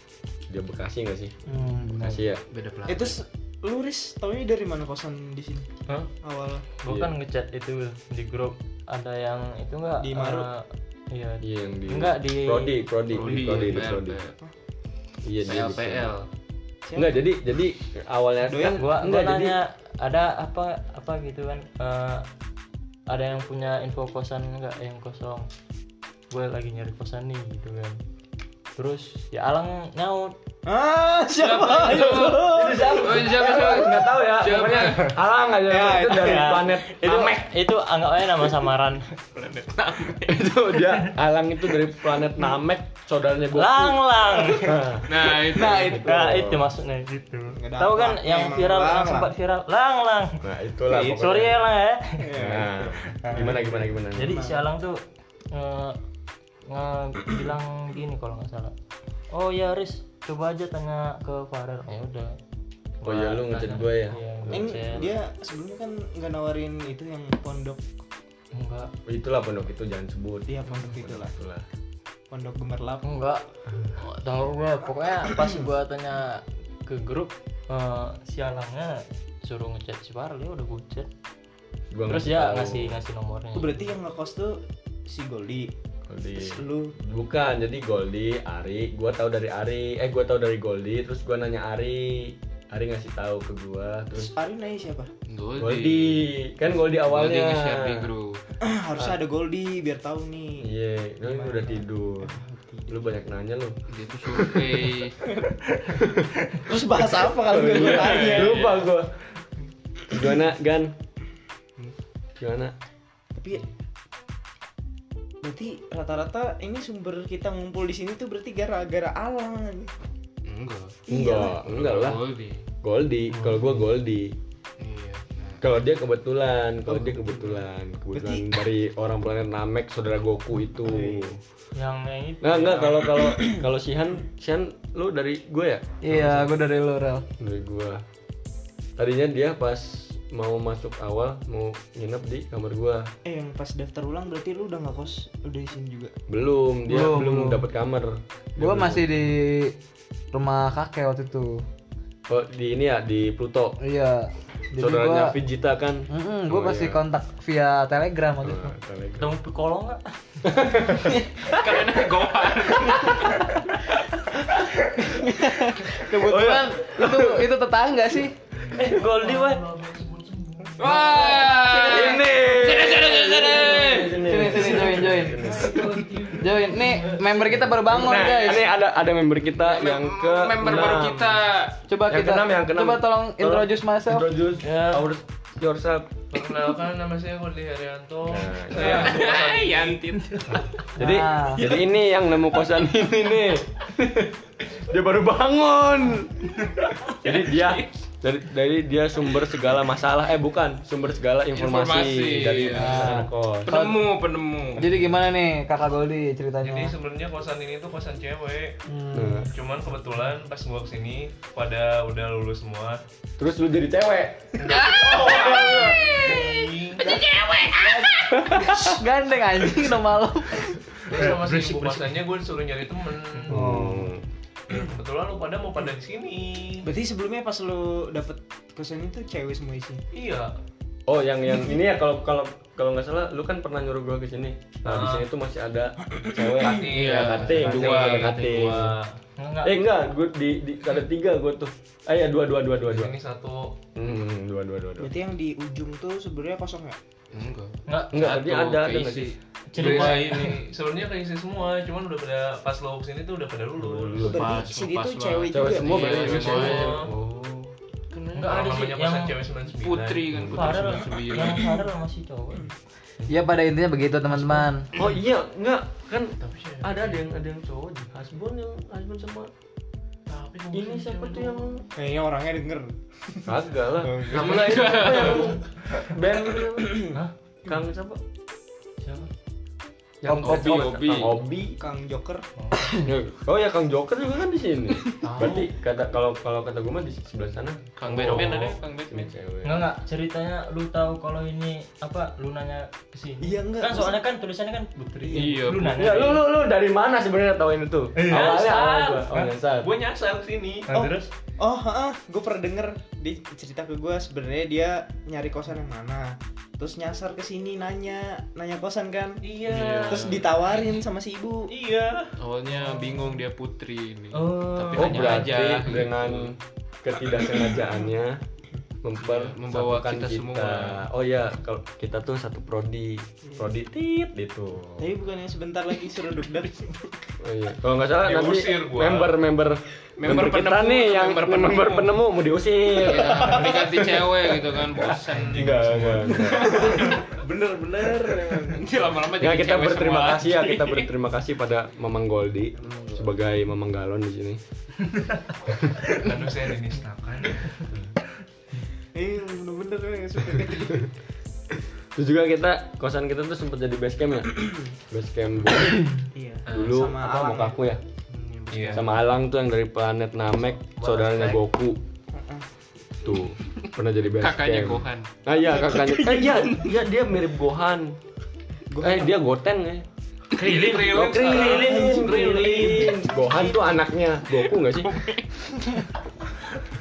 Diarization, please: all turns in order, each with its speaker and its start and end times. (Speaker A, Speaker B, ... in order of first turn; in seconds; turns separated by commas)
Speaker A: 0.5-1.4, Speaker B: 1.5-2.1, Speaker A: 1.9-2.4, Speaker C: 2.5-3.2, Speaker D: 2.9-5.7, Speaker D: 6.2-6.6, Speaker E: 6.8-12.7, Speaker A: 6.8-7.1, Speaker D: 10.0-10.5, Speaker A: 11.4-14.2, Speaker C: 13.1-14.4, Speaker A: 15.2-16.1, Speaker C: 15.4-16.3, Speaker D: 16.9-17.2, Speaker A: 16.9-19.6, Speaker D: 18.5-18.8, Speaker E: 18.6-22.2, Speaker E: 23.1-25.5, Speaker E: 26.3-28.0, Speaker E: 28.8-30.3, Speaker D: 30.6-33.5, Speaker C: 31.3-35.2, Speaker A: 32.1-37.5, Speaker D: 35.7-36.6, Speaker E: 36.1-39.1, Speaker C: 39.3-40.4, Speaker A: 40.2-46.7, Speaker E: 43.5-44.8, Speaker C: 45.0-46.1, Speaker D: 45.5-46.2, Speaker E: 45.7-50.4, Speaker D: 47.5-49.3, Speaker A: 50.4-51.5, Speaker D: 50.9-51.3, Speaker E: 51.0-52.3, Speaker D: 52.2-54.6, Speaker A: 52.3-54.4, Speaker E: 54.1-55.0, Speaker E: 55.5-56.0, Speaker E: 56.6-58.7, Speaker E: 59.3-62.4, Speaker E: 63.0-65.0, Speaker A: 63.0-65.2, Speaker D: 64.5-67.8, Speaker E: 68.5-68.9, Speaker A: 69.0-71.6, Speaker D: 70.5-71.3, Speaker D: 72.3-73.0, Speaker E: 73.0-81.1, Speaker A: 81.9-83.0, Speaker E: 82.0-83.8, Speaker D: 83.5-85.7, Speaker A: 86.1-94.3, Speaker D: 86.4-86.9, Speaker D: 94.1-95.1, Speaker C: 95.3-96.3, Speaker A: 95.6-98.1, Speaker C: 97.0-98.5, Speaker D: 98.6-100.7, Speaker A: 100.6-102.4, Speaker D: 101.2-103.0, Speaker A: 102.9-105.0, Speaker C: 103.9-105.2, Speaker A: 106.0-106.2, Speaker D: 106.5-108.8, Speaker A: 107.4-109.2, Speaker C: 108.0-108.7, Speaker A: 110.1-110.9, Speaker A: 112.4-112.7, Speaker D: 113.3-113.7, Speaker D: 115.4-119.9, Speaker C: 120.4-122.7, Speaker D: 121.1-121.6, Speaker A: 121.1-122.2, Speaker A: 122.8-124.3, Speaker C: 124.8-125.6, Speaker A: 125.6-131.4, Speaker D: 126.9-127.6, Speaker D: 128.1-128.4, Speaker D: 130.8-131.2, Speaker E: 131.7-133.0, Speaker A: 132.4-136.5, Speaker B: 136.1-137.2, Speaker A: 137.4-138.0, Speaker A: 139.0-143.1, Speaker D: 143.2-146.1, Speaker A: 146.3-149.2, Speaker B: 146.9-147.6, Speaker B: 148.6-149.7, Speaker B: 150.3-151.5, Speaker A: 152.3-153.8, Speaker B: 153.8-155.3, Speaker A: 154.8-157.0, Speaker B: 156.1-158.7, Speaker A: 158.4-159.3, Speaker E: 159.2-160.1, Speaker A: 160.4-161.2, Speaker C: 161.4-163.5, Speaker D: 165.0-166.0, Speaker B: 166.0-168.3, Speaker A: 166.1-167.5, Speaker A: 168.7-169.7, Speaker E: 168.8-171.6, Speaker F: 169.6-171.5, Speaker C: 170.8-174.9, Speaker A: 171.5-175.8, Speaker B: 174.2-175.3, Speaker F: 175.0-177.3, Speaker B: 176.3-178.6, Speaker A: 177.8-181.4, Speaker C: 179.5-181.8, Speaker B: 181.9-184.3, Speaker A: 182.1-186.1, Speaker E: 184.6-185.1, Speaker F: 186.3-190.2, Speaker A: 188.2-189.2, Speaker C: 188.8-190.8, Speaker A: 190.5-203.8, Speaker B: 191.0-191.6, Speaker C: 196.8-197.9, Speaker C: 201.5-205.2, Speaker B: 202.9-203.9, Speaker B: 204.8-206.9, Speaker F: 206.6-208.8, Speaker B: 208.9-209.5, Speaker A: 209.1-209.5, Speaker F: 209.4-213.0, Speaker A: 213.4-215.7, Speaker F: 214.6-217.2, Speaker C: 214.7-218.7, Speaker A: 218.4-218.8, Speaker B: 218.8-220.8, Speaker F: 221.0-223.6, Speaker A: 223.5-224.2, Speaker B: 223.5-224.1, Speaker F: 224.7-226.9, Speaker D: 226.8-230.0, Speaker F: 230.1-230.5, Speaker A: 231.1-239.0, Speaker F: 234.8-235.2, Speaker F: 236.6-239.2, Speaker C: 236.9-238.7, Speaker E: 239.4-239.8, Speaker A: 239.6-243.1, Speaker F: 242.8-243.8, Speaker A: 243.9-245.1, Speaker D: 245.0-247.0, Speaker C: 247.3-250.7, Speaker E: 247.8-248.1, Speaker A: 248.1-249.3, Speaker E: 249.7-250.6, Speaker F: 249.8-254.4, Speaker A: 253.8-254.6, Speaker D: 254.2-256.4, Speaker C: 254.3-256.9, Speaker A: 255.5-257.8, Speaker F: 255.8-257.1, Speaker C: 258.1-258.6, Speaker E: 258.3-259.3, Speaker F: 258.4-260.4, Speaker C: 259.7-261.8, Speaker A: 260.3-261.0, Speaker E: 260.5-262.7, Speaker B: 263.3-264.9, Speaker A: 264.9-269.5, Speaker F: 266.4-267.2, Speaker F: 270.3-271.6, Speaker A: 270.7-271.8, Speaker D: 271.9-274.9, Speaker A: 273.4-278.2, Speaker C: 274.2-275.6, Speaker E: 279.0-279.3, Speaker A: 280.2-281.8, Speaker C: 280.3-281.4, Speaker D: 281.8-282.4, Speaker E: 282.6-283.1, Speaker A: 283.0-288.6, Speaker F: 285.3-285.6, Speaker C: 288.0-289.3, Speaker F: 288.1-288.5, Speaker E: 288.3-288.8, Speaker A: 289.1-289.9, Speaker E: 289.6-296.4, Speaker D: 293.4-294.2, Speaker C: 295.3-296.0, Speaker A: 295.8-299.9, Speaker E: 298.1-298.5, Speaker F: 298.2-301.0, Speaker E: 300.9-301.3, Speaker D: 300.9-309.4, Speaker F: 309.4-310.9, Speaker C: 309.6-310.5, Speaker D: 310.0-311.7, Speaker F: 311.7-312.4, Speaker C: 312.4-316.5, Speaker E: 314.3-315.9, Speaker F: 314.8-315.2, Speaker A: 314.9-318.4, Speaker A: 319.0-325.1, Speaker C: 319.2-321.1, Speaker D: 325.0-327.1, Speaker A: 327.4-336.9, Speaker F: 328.2-329.3, Speaker C: 330.2-332.2, Speaker C: 333.0-337.3, Speaker F: 335.4-336.3, Speaker D: 335.6-338.9, Speaker C: 338.7-341.1, Speaker A: 339.2-344.6, Speaker D: 342.8-343.3, Speaker A: 345.7-346.1, Speaker F: 346.1-347.8, Speaker D: 349.1-351.1, Speaker A: 352.1-356.1, Speaker D: 356.3-357.7, Speaker A: 356.7-358.0, Speaker C: 358.3-359.2, Speaker F: 358.7-359.1, Speaker A: 358.9-362.0, Speaker F: 361.1-361.5, Speaker D: 362.3-362.7, Speaker A: 363.2-368.2, Speaker C: 364.4-366.9, Speaker D: 368.9-369.3, Speaker A: 369.0-370.1, Speaker C: 370.5-371.7, Speaker F: 370.5-373.2, Speaker A: 371.1-375.2, Speaker D: 371.6-374.0, Speaker C: 374.5-375.6